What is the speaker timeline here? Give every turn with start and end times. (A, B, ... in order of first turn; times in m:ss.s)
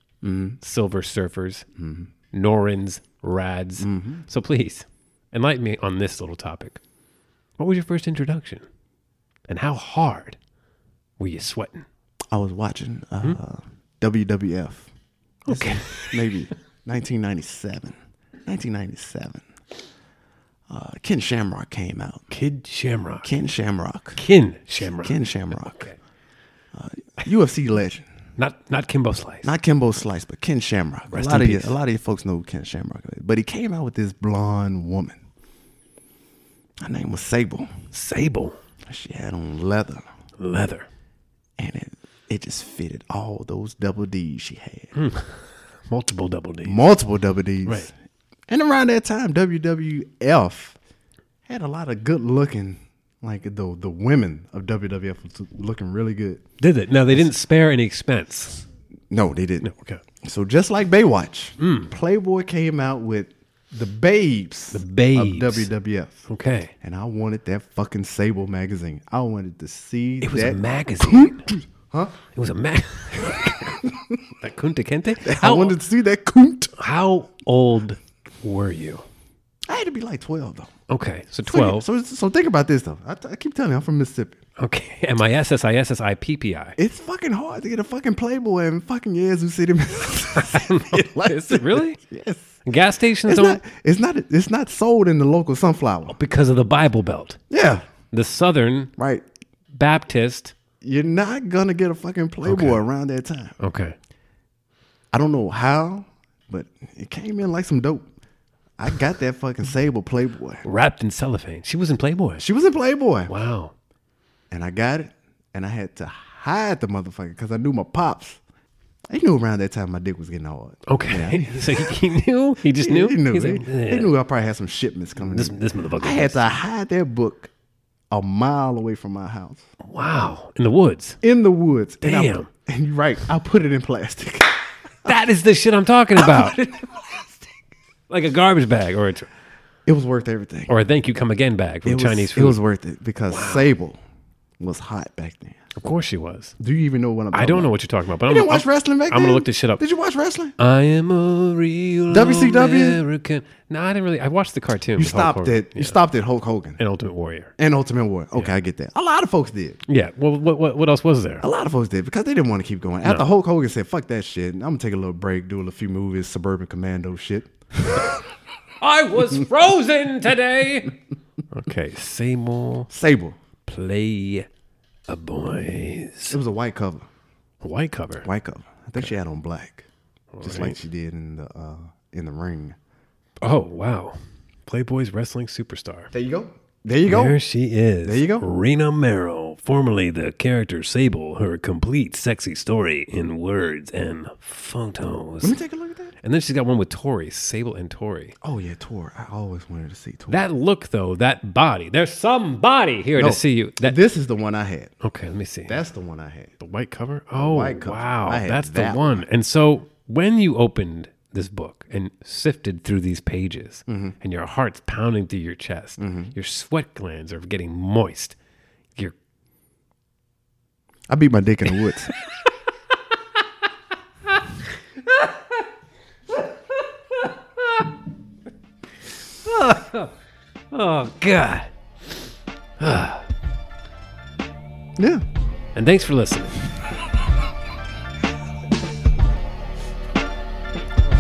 0:00.2-0:00.6 A
0:00.6-0:01.6 B
0:01.8-0:02.1 A
0:02.3-0:06.8 B
0:03.8-0:04.3 A
0:07.6-0:08.6 B
0:09.5-0:10.4 B
0:11.2-0:11.9 B
0:12.3-0:14.9 A
0:15.5-0:16.3 B
0:15.5-0:19.4 A
0:20.7-0:22.3 A
0:22.3-0:23.3 B
0:23.2-0:24.2 A
0:24.2-0:26.0 B
0:24.9-0:25.9 A
0:26.7-0:28.1 A
0:28.4-0:29.5 B
0:29.4-0:35.2 A
0:31.1-0:31.8 B
0:36.8-0:37.7 A
0:37.9-0:38.6 B
0:38.9-0:40.0 A
0:40.4-0:40.9 B
0:41.6-0:44.9 A
0:45.0-0:46.8 B
0:46.6-0:47.9 A
0:47.6-0:47.9 B
0:48.5-0:50.8 A
0:51.5-0:56.4 A
0:56.6-0:58.7 B
0:59.1-0:59.7 A
0:59.6-1:00.0 B
1:00.2-1:06.3 A
1:01.6-1:01.9 B
1:04.7-1:05.7 B
1:06.3-1:06.7 B
1:06.8-1:12.2 A
1:10.2-1:11.5 B
1:12.3-1:15.8 B
1:15.2-1:16.7 A
1:16.8-1:19.1 B
1:19.7-1:20.7 A
1:20.9-1:21.9 B
1:21.5-1:24.4 A
1:24.6-1:26.8 B
1:26.8-1:32.6 A
1:30.4-1:32.0 B
1:32.6-1:33.6 B
1:33.3-1:36.2 A
1:36.1-1:37.4 B
1:37.5-1:37.8 A
1:38.1-1:38.9 B
1:39.0-1:39.2 A
1:39.7-1:40.6 B
1:40.8-1:43.6 A
1:42.4-1:42.8 B
1:43.6-1:44.0 B
1:45.1-1:48.1 A
1:48.8-1:50.6 A
1:50.6-1:52.4 B
1:52.4-1:53.3 A
1:53.3-1:53.7 B
1:54.5-1:58.4 A
1:59.1-2:02.1 A
2:00.9-2:04.1 B
2:02.8-2:07.5 A
2:05.2-2:06.5 B
2:08.1-2:09.7 A
2:09.8-2:11.2 B
2:11.2-2:15.2 A
2:12.0-2:12.5 B
2:15.1-2:16.6 B
2:16.2-2:17.4 A
2:18.1-2:19.3 B
2:19.9-2:20.7 A
2:20.7-2:22.6 B
2:21.8-2:24.0 A
2:23.3-2:23.7 B
2:24.6-2:25.6 A
2:25.8-2:26.6 B
2:26.6-2:27.7 A
2:27.3-2:29.8 B
2:28.3-2:30.6 A
2:30.6-2:36.0 B
2:32.1-2:33.0 A
2:35.0-2:36.8 A
2:36.8-2:37.5 B
2:37.6-2:39.8 A
2:39.9-2:41.5 B
2:41.4-2:48.2 A
2:48.8-2:51.0 B
2:51.5-2:52.9 B
2:52.9-2:53.4 A
2:53.7-2:54.5 B
2:55.1-2:56.4 B
2:56.3-2:57.1 A
2:57.6-2:58.3 B
2:58.2-2:59.9 A
3:00.3-3:00.8 B
3:00.4-3:02.8 A
3:03.4-3:06.1 B
3:06.1-3:07.4 A
3:07.0-3:15.6 B
3:08.0-3:08.5 A
3:15.4-3:16.1 A
3:16.2-3:18.4 B
3:18.4-3:20.4 A
3:20.3-3:24.0 B
3:23.2-3:24.9 A
3:25.0-3:25.8 B
3:25.7-3:26.5 A
3:26.6-3:38.4 B
3:27.3-3:29.3 A
3:33.9-3:34.2 A
3:36.0-3:36.3 A
3:41.1-3:42.1 A
3:49.4-3:50.1 B
3:50.7-3:52.2 B
3:52.8-3:53.3 B
3:55.0-3:55.2 A
3:55.8-3:56.6 B